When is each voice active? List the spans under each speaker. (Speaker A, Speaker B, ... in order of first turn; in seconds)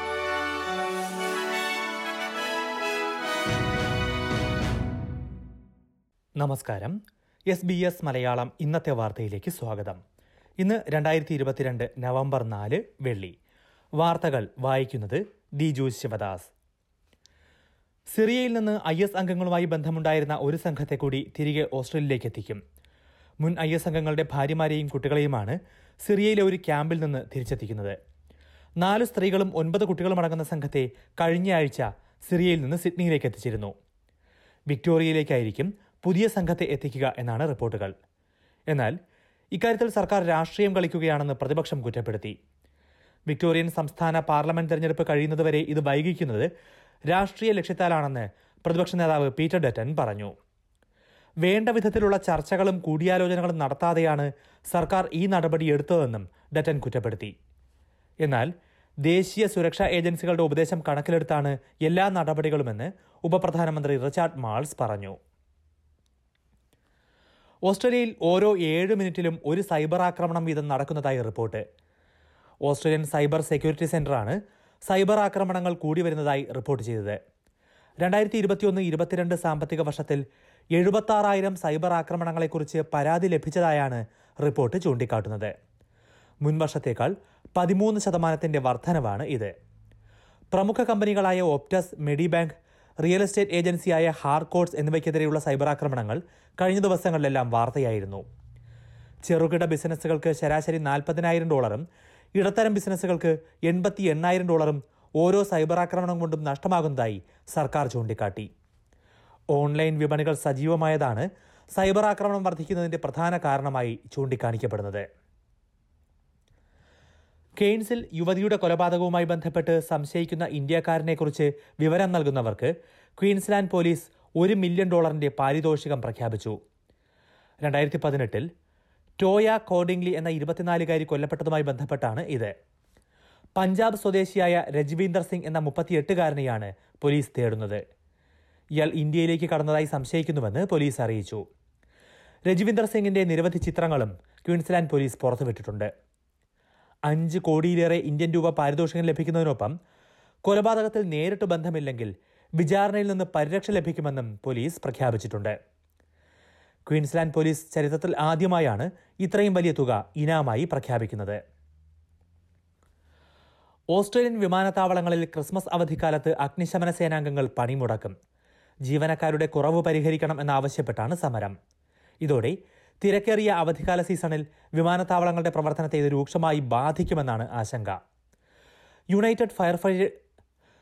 Speaker A: 6.4-7.0, 7.5-10.0, 10.6-13.3, 14.0-16.5, 18.1-22.6, 23.4-27.9, 28.8-33.7, 34.7-37.9, 38.7-38.9, 39.5-42.3, 43.3-46.5, 47.1-50.3, 51.4-57.3, 58.2-58.5, 59.0-65.2, 67.7-71.6, 72.7-77.2, 78.0-80.2, 80.7-85.5, 86.4-89.5, 90.5-98.2, 99.2-101.8, 102.3-108.5, 109.5-115.0, 117.6-126.6, 127.6-128.4, 129.2-132.5, 133.6-137.8, 138.8-141.4, 142.5-145.9, 147.1-149.7, 150.4-155.5, 156.9-161.4, 163.9-168.1, 168.8-171.5, 172.2-178.0, 179.1-180.1